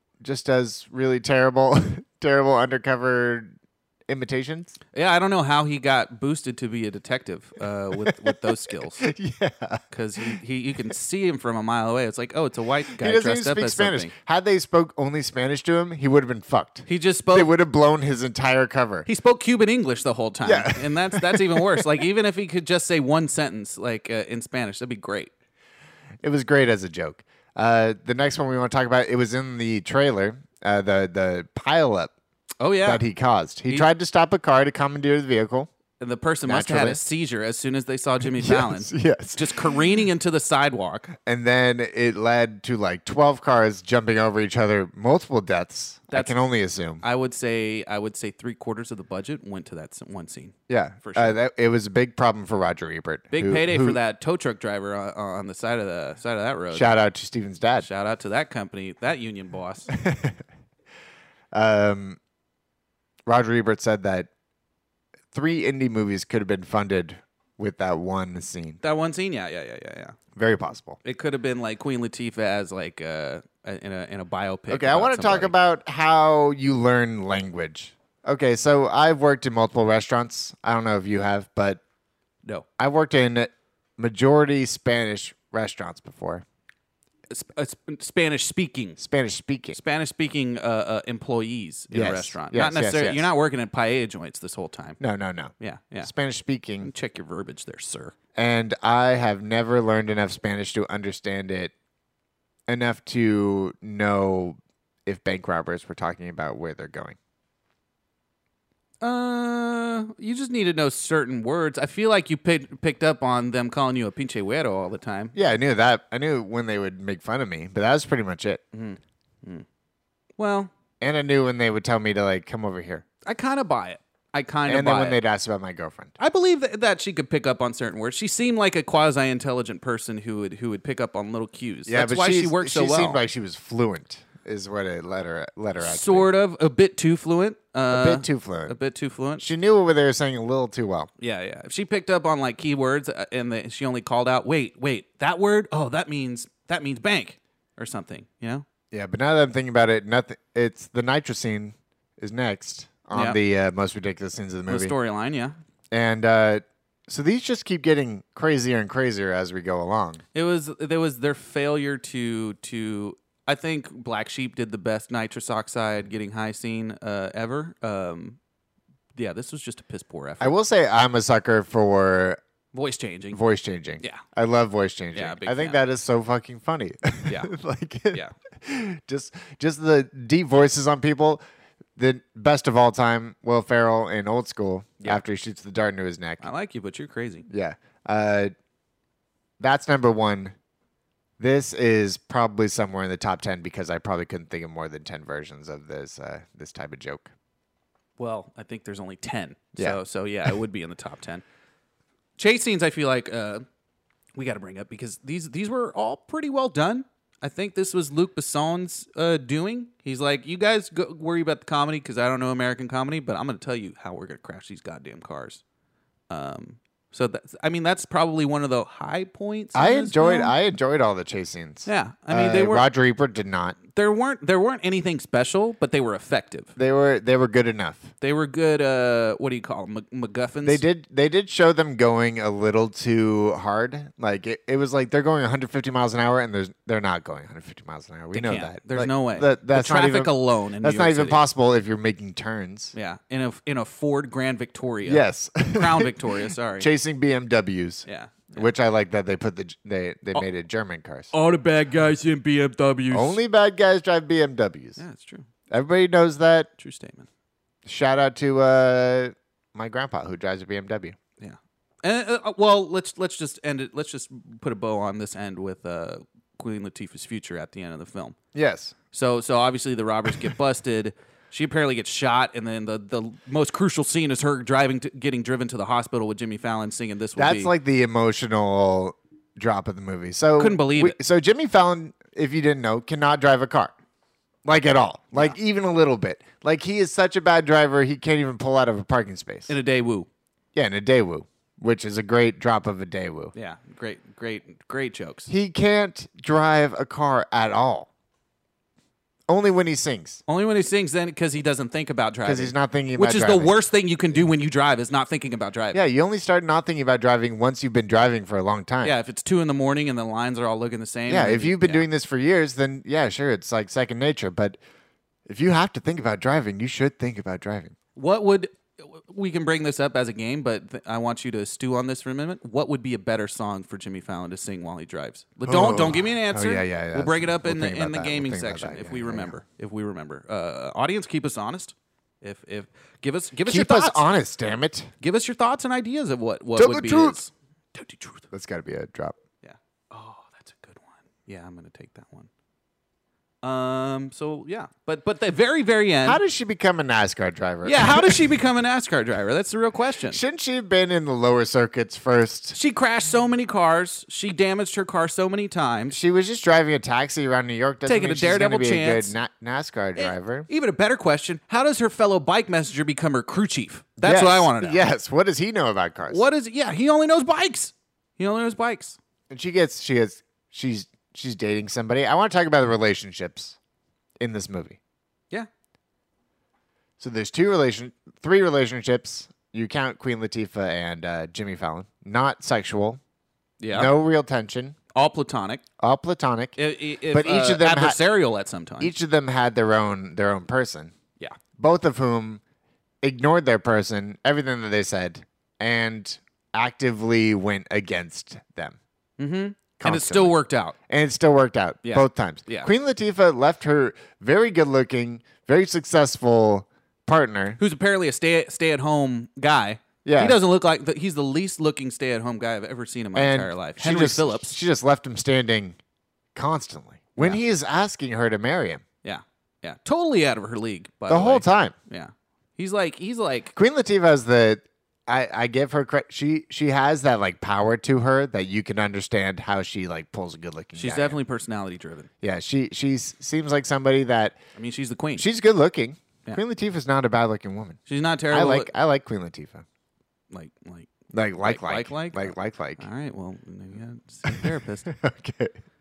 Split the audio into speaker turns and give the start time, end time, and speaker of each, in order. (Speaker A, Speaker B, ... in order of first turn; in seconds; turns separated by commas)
Speaker A: 0.2-3.6, Speaker A: 4.1-4.8, Speaker B: 4.9-9.1, Speaker A: 8.0-10.4, Speaker B: 9.9-14.1, Speaker A: 12.9-19.1, Speaker B: 16.9-17.5, Speaker B: 19.1-25.3, Speaker A: 20.4-21.9, Speaker A: 26.2-32.1, Speaker B: 32.6-33.0, Speaker A: 32.8-35.7, Speaker B: 36.0-41.1, Speaker A: 36.5-37.0, Speaker A: 38.2-39.8, Speaker A: 41.2-47.0, Speaker B: 46.1-46.4, Speaker B: 47.0-51.4, Speaker A: 50.7-54.0, Speaker B: 53.3-56.9, Speaker A: 56.7-57.9, Speaker B: 57.8-59.9, Speaker A: 59.9-60.4, Speaker A: 61.5-62.2, Speaker A: 63.3-64.3, Speaker A: 65.3-68.8, Speaker B: 68.8-70.2, Speaker A: 70.3-71.0, Speaker B: 71.0-75.5, Speaker A: 74.7-81.8, Speaker A: 82.8-86.5, Speaker B: 87.3-89.0, Speaker A: 89.0-89.8, Speaker B: 89.7-95.0, Speaker A: 91.9-93.3, Speaker A: 95.0-96.9, Speaker B: 95.6-96.1, Speaker B: 96.8-98.2, Speaker A: 98.3-101.7, Speaker A: 102.7-107.2, Speaker B: 109.0-115.4, Speaker A: 115.3-118.6, Speaker B: 118.7-119.7, Speaker B: 120.4-120.7, Speaker A: 121.0-123.0, Speaker B: 123.2-125.2, Speaker A: 124.7-126.2, Speaker B: 126.2-133.2, Speaker A: 131.9-136.3, Speaker B: 135.8-139.5, Speaker A: 137.9-138.8, Speaker A: 139.4-141.1, Speaker B: 141.2-148.7, Speaker A: 148.9-154.9, Speaker B: 153.1-153.4, Speaker B: 154.7-155.6, Speaker A: 155.9-160.2, Speaker B: 160.3-168.4, Speaker B: 169.2-170.6, Speaker A: 170.4-172.4, Speaker B: 172.7-173.4, Speaker A: 173.3-181.4, Speaker B: 175.1-175.8, Speaker B: 177.3-177.5, Speaker A: 182.0-186.5, Speaker B: 186.4-187.5, Speaker A: 187.5-188.5, Speaker A: 189.6-190.6, Speaker A: 191.4-197.3, Speaker B: 198.2-201.4, Speaker B: 202.4-203.7, Speaker B: 204.4-215.6, Speaker B: 216.3-220.5, Speaker A: 219.7-223.8, Speaker B: 221.9-222.9, Speaker B: 223.9-226.7, Speaker A: 226.8-228.1, Speaker B: 228.2-230.8, Speaker A: 230.6-242.9, Speaker B: 238.3-241.4, Speaker B: 242.9-246.9, Speaker A: 245.1-251.3, Speaker B: 248.1-248.7, Speaker B: 251.3-253.4, Speaker A: 253.1-255.0, Speaker B: 255.0-255.5, Speaker A: 255.7-256.7, Speaker B: 256.8-257.3, Speaker A: 257.9-261.2, Speaker B: 261.4-268.4, Speaker A: 268.5-268.9, Speaker B: 269.1-277.7, Speaker A: 277.4-283.9, Speaker B: 280.6-281.2, Speaker A: 284.6-289.8, Speaker B: 289.7-290.3, Speaker A: 290.7-293.5, Speaker B: 293.6-295.5, Speaker A: 295.5-298.1, Speaker A: 299.5-300.4, Speaker B: 300.5-306.0, Speaker A: 302.4-303.8, Speaker A: 305.9-309.1, Speaker B: 309.0-312.1, Speaker A: 311.3-314.8, Speaker A: 315.5-317.9, Speaker B: 318.2-334.3, Speaker A: 325.7-329.5, Speaker A: 333.6-335.1, Speaker B: 335.2-338.5, Speaker A: 336.8-337.4, Speaker A: 338.5-339.4, Speaker B: 339.6-342.5, Speaker B: 343.6-346.4, Speaker A: 346.2-348.5, Speaker B: 347.8-350.4, Speaker A: 350.3-352.8, Speaker B: 352.7-356.2, Speaker A: 356.1-360.7, Speaker B: 358.1-359.4, Speaker B: 360.2-365.0, Speaker A: 364.2-366.5, Speaker B: 366.3-369.2, Speaker A: 369.5-373.8, Speaker A: 374.4-375.0, Speaker A: 377.2-383.2, Speaker B: 383.8-384.1, Speaker A: 383.9-385.0, Speaker B: 385.1-385.8, Speaker A: 386.0-388.2, Speaker B: 386.8-389.1, Speaker A: 389.0-391.1, Speaker A: 391.8-392.6, Speaker A: 393.2-399.0, Speaker B: 399.4-401.0, Speaker A: 400.0-400.6, Speaker A: 401.1-407.8, Speaker B: 402.0-402.9, Speaker B: 407.8-414.8, Speaker A: 410.2-410.6, Speaker A: 413.4-416.0, Speaker A: 416.6-419.0, Speaker B: 419.2-423.8, Speaker A: 421.3-421.9, Speaker A: 423.8-431.4, Speaker B: 430.9-432.3, Speaker A: 432.4-434.6, Speaker B: 434.8-435.5, Speaker A: 435.4-439.9, Speaker B: 438.1-438.9, Speaker B: 440.5-445.1, Speaker A: 441.3-443.1, Speaker A: 444.5-445.8